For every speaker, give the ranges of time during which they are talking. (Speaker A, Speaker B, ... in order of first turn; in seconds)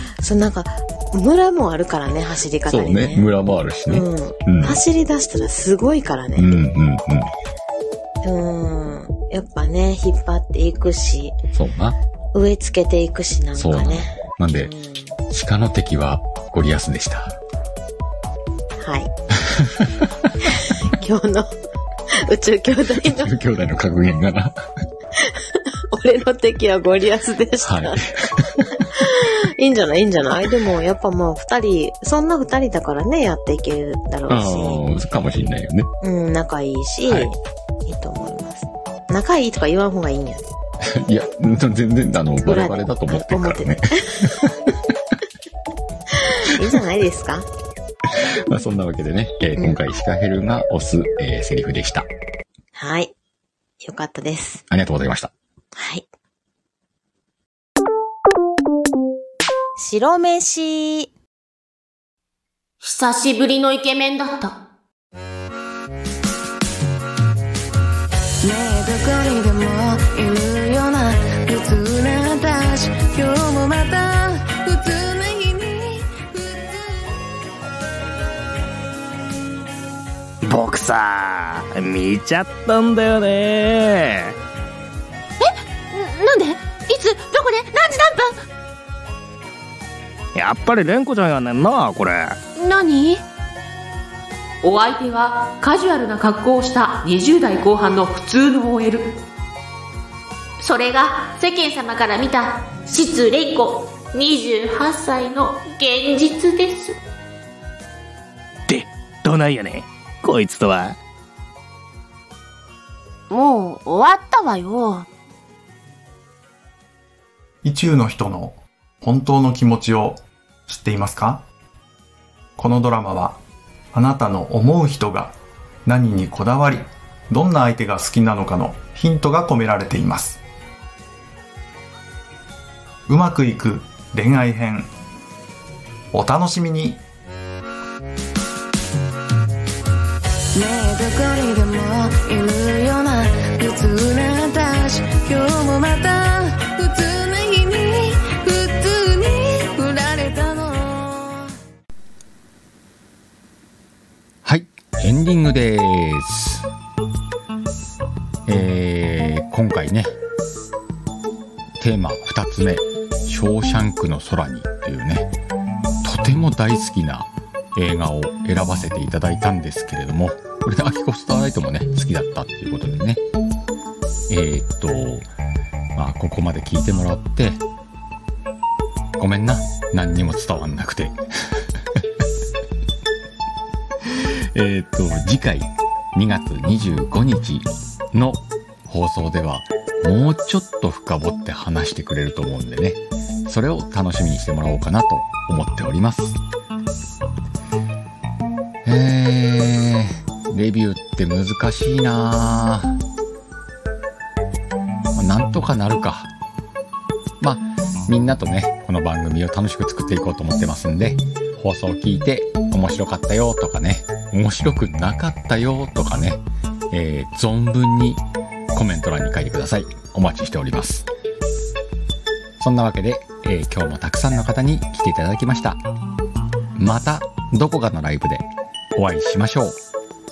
Speaker A: 0.2-3.3, 3.9-6.5, 8.2-11.4, 12.3-15.2, 18.8-19.1, 20.6-21.5, 22.1-23.3, 25.2-34.8, 36.0-40.5, 42.4-44.5, 46.1-47.5, 52.8-53.1, 53.8-54.6, 55.8-56.1, 59.8-61.1
Speaker B: 2.7-4.8, 6.4-7.3, 11.5-12.0, 13.6-14.7, 15.3-17.4, 19.4-20.3, 23.0-24.7, 27.6-28.6, 34.3-35.9, 40.8-44.7, 48.0-52.1, 54.7-55.3, 154.4-156.7, 158.5-160.2, 161.8-165.3, 166.0-173.2, 174.3-175.3, 175.9-177.6, 179.2-182.1, 184.1-196.4, 198.8-203.0, 205.1-206.3, 207.4-221.1, 222.6-225.8, 226.8-229.8
Speaker C: 62.8-64.5, 85.4-88.4, 92.6-93.2, 94.6-99.2, 100.6-107.0, 113.3-115.1
Speaker D: 68.4-77.2, 140.5-151.5
Speaker E: 80.4-84.3, 90.3-92.4, 108.7-111.0
Speaker F: 117.6-121.5, 122.6-123.4, 123.9-130.4, 133.1-134.9, 136.1-137.0